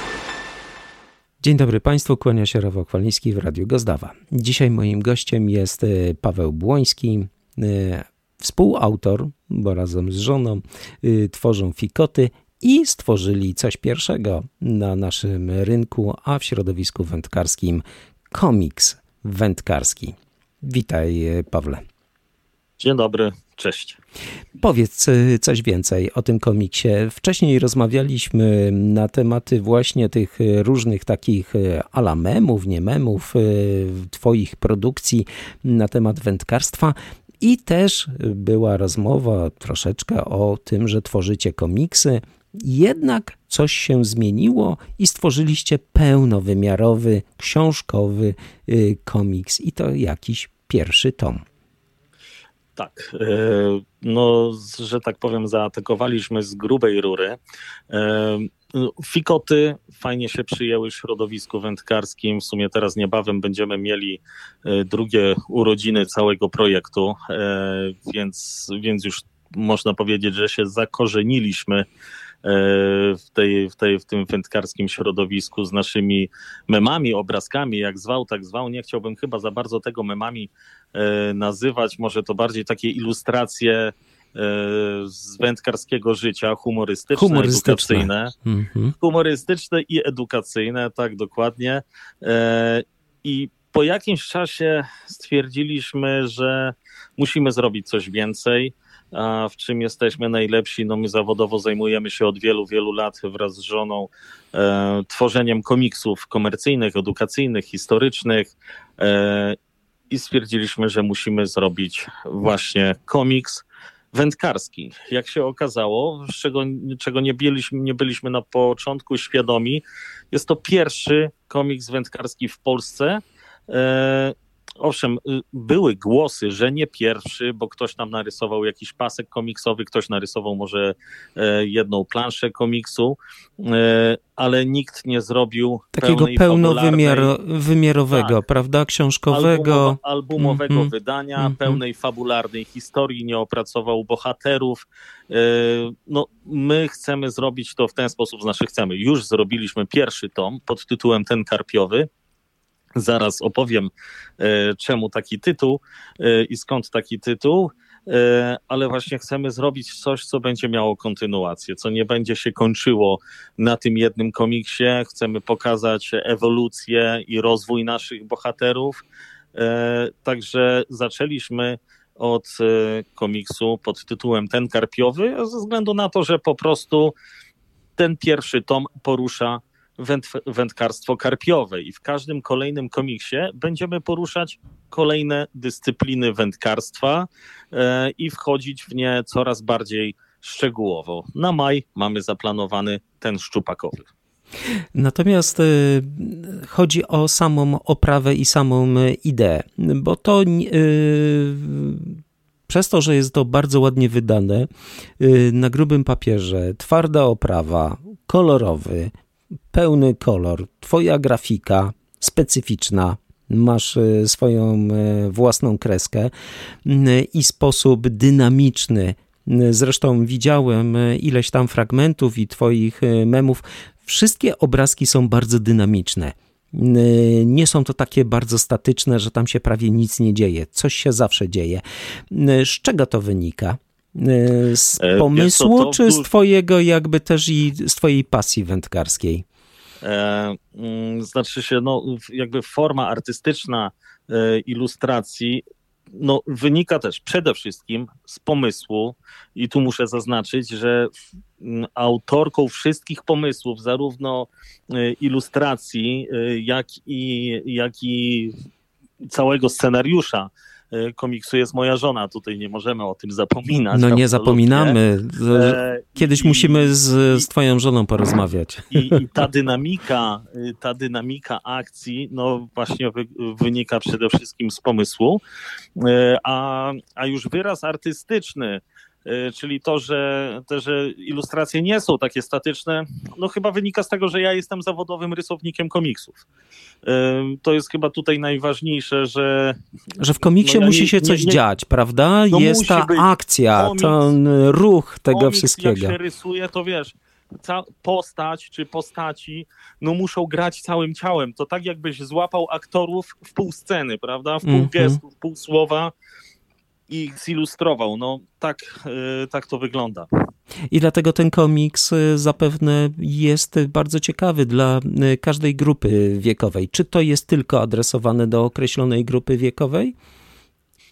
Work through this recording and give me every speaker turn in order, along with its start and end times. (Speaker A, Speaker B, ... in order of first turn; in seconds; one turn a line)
Speaker A: 1.4-21.8
Speaker B: 22.8-24.0
Speaker A: 24.6-51.4
Speaker B: 52.8-57.4
Speaker B: 57.9-71.9
Speaker B: 72.4-88.3
Speaker A: 87.1-88.9
Speaker B: 89.0-109.5
Speaker B: 110.1-137.3
Speaker A: 135.9-141.8
Speaker B: 138.1-138.4
Speaker B: 139.3-152.1
Speaker B: 152.9-169.0
Speaker B: 169.6-177.2
Speaker B: 178.0-194.1
Speaker A: 194.9-204.7
Speaker A: 205.2-209.1
Speaker A: 209.7-216.3
Speaker A: 216.8-239.4
Speaker B: 235.0-236.3
Speaker B: 240.0-258.5
Speaker B: 259.2-265.0
Speaker A: 263.9-269.2
Speaker B: 265.5-267.5
Speaker B: 268.9-275.4
Speaker B: 276.0-286.4
Speaker B: 287.1-289.8
Speaker A: 290.2-296.2
Speaker B: 290.6-291.6
Speaker B: 292.5-294.4
Speaker B: 295.3-306.1
Speaker A: 304.6-305.2
Speaker B: 307.1-310.3
Speaker A: 310.9-320.1